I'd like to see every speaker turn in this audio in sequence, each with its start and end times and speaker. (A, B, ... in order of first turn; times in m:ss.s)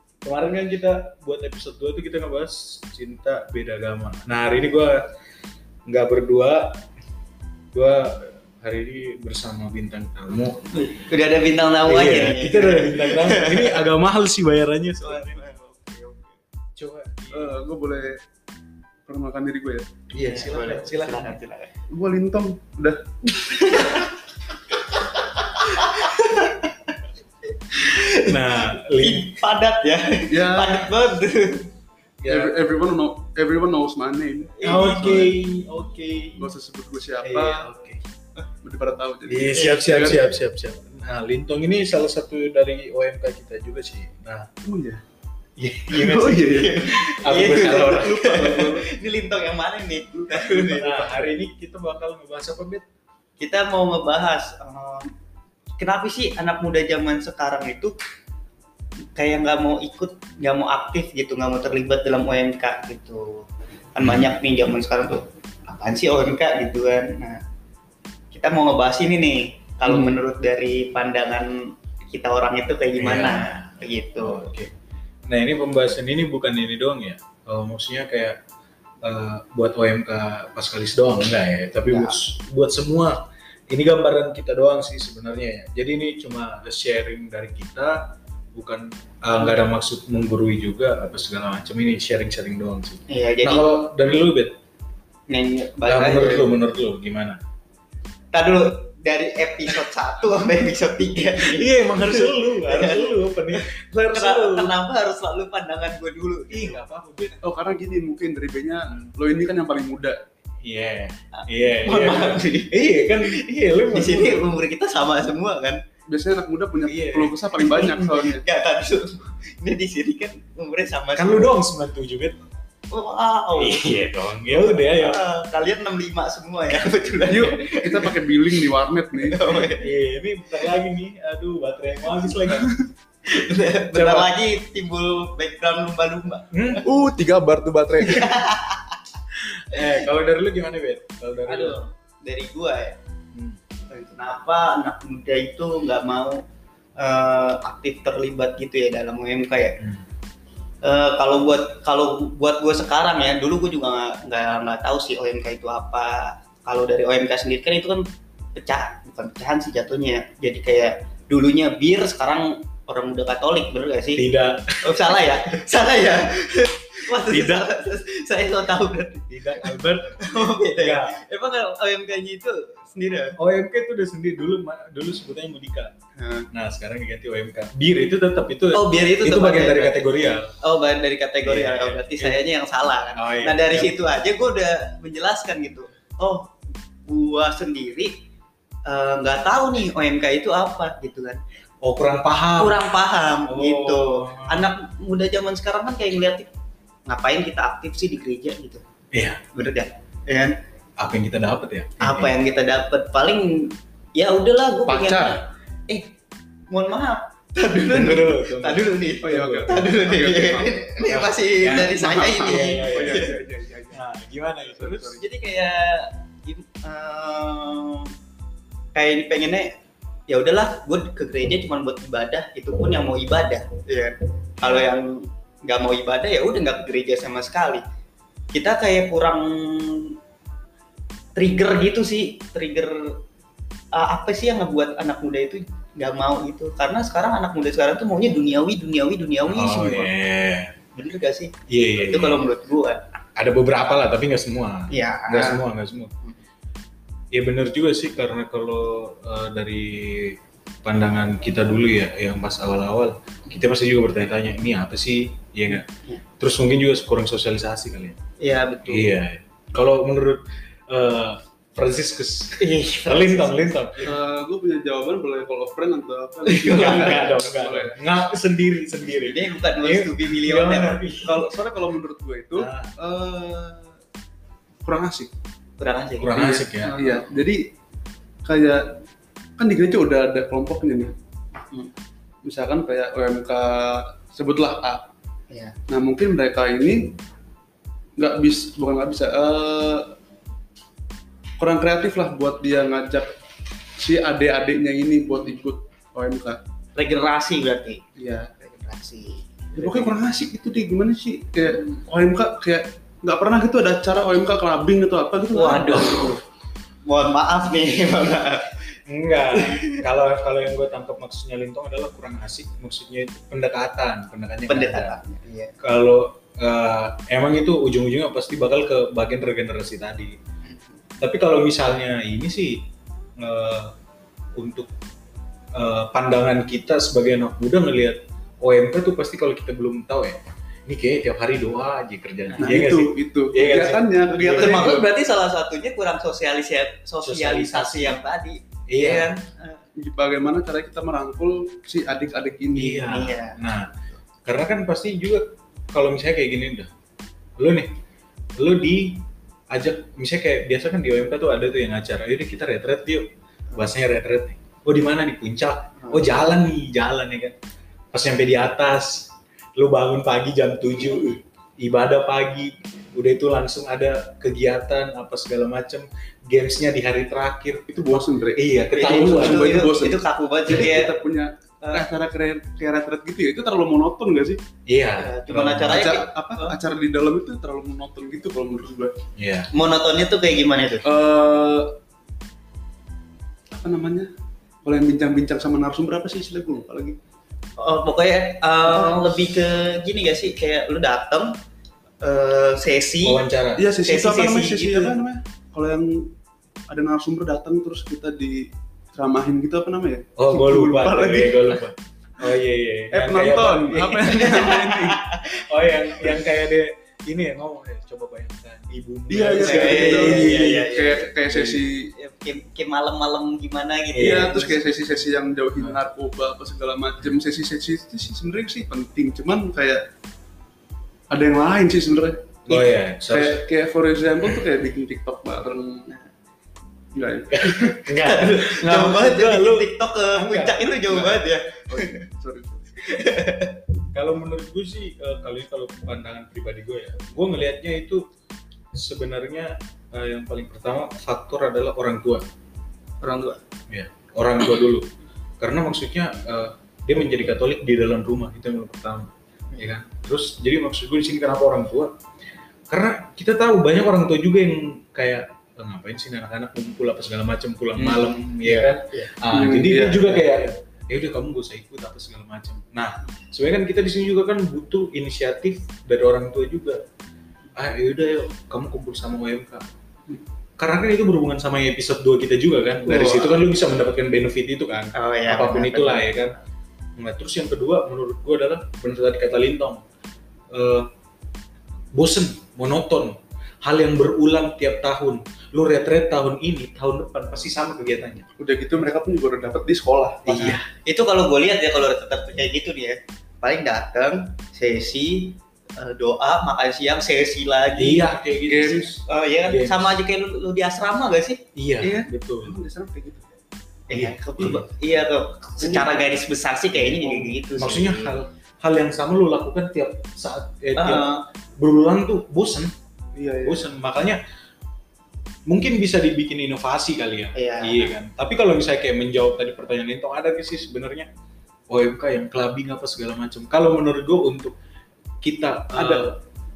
0:00.2-0:05.0 A
0:05.9-0:06.9 A
0:07.7-0:10.7 A
0:10.8-0:13.9 B
0:11.9-0:15.4 A
0:15.0-0:16.4 B
0:16.8-0:17.6 A
0:17.3-0:18.2 C
0:19.1-0:19.9 C
0:20.1-0:21.4 A
0:20.2-0:21.7 B
0:21.9-0:24.0 C
0:23.6-0:24.1 B
0:24.9-0:26.9 B
0:27.7-0:31.7 B
0:28.1-0:29.3 A
0:30.3-0:30.9 C
0:32.2-0:32.5 A
0:32.3-0:35.4 C
0:34.6-0:35.0 B
0:34.6-0:36.5 A
0:36.4-0:37.7 C
0:37.2-0:38.0 A
0:38.6-0:40.2 C
0:39.3-0:44.5 A
0:44.6-0:45.0 C
0:45.6-0:48.2 A
0:45.9-0:48.9 C
0:46.5-0:51.3 B
0:50.3-0:52.8 A
0:53.4-0:55.1 B
0:55.8-0:58.0 B
0:59.2-1:07.4 B
1:04.0-1:04.3 A
1:08.3-1:14.4 B
1:09.9-1:10.2 C
1:13.0-1:14.7 A
1:15.3-1:18.4 A
1:19.0-1:34.6 A
1:21.9-1:22.2 B
1:33.1-1:33.7 B
1:35.3-1:36.5 B
1:35.9-1:37.4 A
1:38.3-1:46.8 B
1:41.4-1:44.7 A
1:46.5-1:47.4 A
1:47.4-1:50.2 C
1:50.6-1:54.5 A
1:51.3-1:55.8 B
1:56.1-1:58.4 C
1:56.8-1:57.4 A
1:57.6-2:01.6 B
2:01.1-2:02.4 A
2:02.9-2:03.9 B
2:03.6-2:05.2 A
2:04.4-2:08.1 B
2:07.3-2:09.4 C
2:09.2-2:09.9 B
2:09.6-2:12.7 A
2:13.2-2:16.8 B
2:13.9-2:14.3 A
2:16.5-2:16.8 A
2:16.8-2:18.4 C
2:18.0-2:19.0 B
2:19.3-2:21.8 A
2:19.7-2:20.0 B
2:21.4-2:23.0 B
2:23.3-2:23.6 A
2:23.9-2:26.4 B
2:27.0-2:29.8 B
2:29.8-2:30.0 A
2:30.8-2:44.3 B
2:44.1-2:45.4 A
2:44.8-2:53.4 B
2:47.2-2:47.7 A
2:49.3-2:51.2 A
2:53.4-2:55.9 A
2:56.2-2:56.5 B
2:56.5-3:00.5 A
2:58.7-3:00.0 B
3:00.6-3:08.2 B
3:01.4-3:02.4 A
3:03.2-3:03.9 A
3:08.8-3:11.4 B
3:11.8-3:12.8 A
3:12.6-3:16.5 B
3:13.5-3:14.7 A
3:17.1-3:18.8 B
3:19.1-3:19.4 A
3:19.5-3:20.6 B
3:21.0-3:22.3 A
3:22.0-3:26.1 B
3:24.9-3:25.4 C
3:26.7-3:33.4 B
3:27.9-3:29.8 A
3:27.9-3:28.2 C
3:29.2-3:30.9 C
3:31.0-3:33.3 A
3:31.6-3:34.0 C
3:33.9-3:35.2 A
3:34.6-3:35.2 C
3:35.2-3:38.1 B
3:38.9-3:39.7 B
3:40.3-3:47.8 B
3:48.5-3:50.2 B
3:51.4-3:53.2 B
3:53.9-4:00.1 B
3:59.5-4:00.7 A
4:00.9-4:03.0 B
4:01.7-4:02.4 A
4:03.4-4:06.1 A
4:04.9-4:05.6 B
4:07.3-4:15.9 A
4:15.9-4:16.2 B
4:16.4-4:18.2 A
4:18.4-4:19.2 B
4:18.9-4:24.1 A
4:22.6-4:23.6 B
4:24.0-4:28.0 C
4:26.5-4:27.2 B
4:26.6-4:31.4 A
4:29.2-4:31.0 B
4:31.2-4:33.9 C
4:32.6-4:32.9 A
4:34.8-4:35.3 C
4:35.8-4:36.3 B
4:36.2-4:37.0 A
4:36.4-4:37.6 C
4:36.9-4:37.2 B
4:38.4-4:39.0 C
4:39.6-4:41.2 C
4:42.4-4:45.1 C
4:45.5-4:45.8 B
4:45.9-4:47.2 C
4:48.2-4:50.2 C
4:51.6-4:53.3 C
4:54.0-4:56.6 C
4:57.0-5:00.1 B
4:58.2-4:58.5 C
4:59.8-5:06.4 C
5:05.5-5:06.4 B
5:07.0-5:08.9 B
5:09.1-5:15.2 A
5:09.5-5:10.0 B
5:14.7-5:15.8 B
5:15.8-5:20.4 A
5:20.6-5:21.0 B
5:21.2-5:22.8 A
5:23.4-5:23.9 A
5:24.6-5:24.9 A
5:25.7-5:35.0 A
5:32.5-5:32.8 B
5:32.6-5:35.1 C
5:34.5-5:39.8 B
5:37.2-5:38.2 A
5:38.9-5:39.4 A
5:40.0-5:43.1 C
5:42.7-5:43.9 A
5:43.0-5:43.6 B
5:44.4-5:46.9 A
5:47.6-5:47.9 A
5:48.6-5:57.6 A
5:56.0-5:56.3 B
5:58.1-6:09.7 A
6:07.9-6:14.6 C
6:08.9-6:11.1 B
6:11.8-6:12.1 B
6:14.9-6:16.1 A
6:15.2-6:16.8 B
6:15.9-6:19.2 C
6:19.4-6:19.7 A
6:19.7-6:21.1 B
6:21.0-6:22.0 C
6:23.7-6:24.3 C
6:24.8-6:27.2 C
6:27.8-6:31.6 B
6:28.9-6:29.3 C
6:32.2-6:33.4 B
6:33.2-6:33.9 A
6:33.8-6:36.3 C
6:34.0-6:35.2 B
6:36.9-6:41.8 C
6:40.4-6:44.6 A
6:43.1-6:45.2 C
6:44.4-6:45.5 B
6:45.5-6:50.8 A
6:49.3-6:52.1 C
6:49.6-6:51.4 B
6:51.5-6:51.8 A
6:52.1-6:54.8 B
6:54.1-6:54.6 A
6:54.2-7:00.0 C
7:01.3-7:06.1 C
7:02.7-7:03.6 A
7:07.2-7:08.1 C
7:07.5-7:11.4 A
7:08.2-7:12.2 B
7:11.9-7:13.0 C
7:13.0-7:13.8 B
7:14.1-7:18.2 A
7:18.9-7:22.4 A
7:23.2-7:23.6 B
7:23.9-7:25.1 A
7:25.6-7:32.1 A
7:32.9-7:47.0 A
7:38.0-7:38.8 C
7:38.7-7:39.3 B
7:39.5-7:40.5 C
7:47.8-7:49.9 A
7:50.8-7:56.6 A
7:53.1-7:53.6 B
7:55.1-7:56.5 B
7:57.2-8:00.0 A
8:00.7-8:01.1 A
8:02.1-8:08.5 A
8:08.6-8:10.8 C
8:10.5-8:10.9 A
8:10.5-8:18.3 B
8:18.0-8:20.1 A
8:18.7-8:19.2 C
8:19.2-8:22.2 B
8:21.8-8:22.8 A
8:22.0-8:23.5 C
8:24.1-8:28.4 B
8:24.1-8:24.9 A
8:25.8-8:26.2 C
8:27.1-8:33.0 A
8:31.0-8:31.4 B
8:33.3-8:33.9 C
8:33.6-8:34.4 A
8:35.7-8:41.3 A
8:37.6-8:38.1 B
8:41.9-8:44.8 A
8:45.4-8:46.4 A
8:45.9-8:46.3 C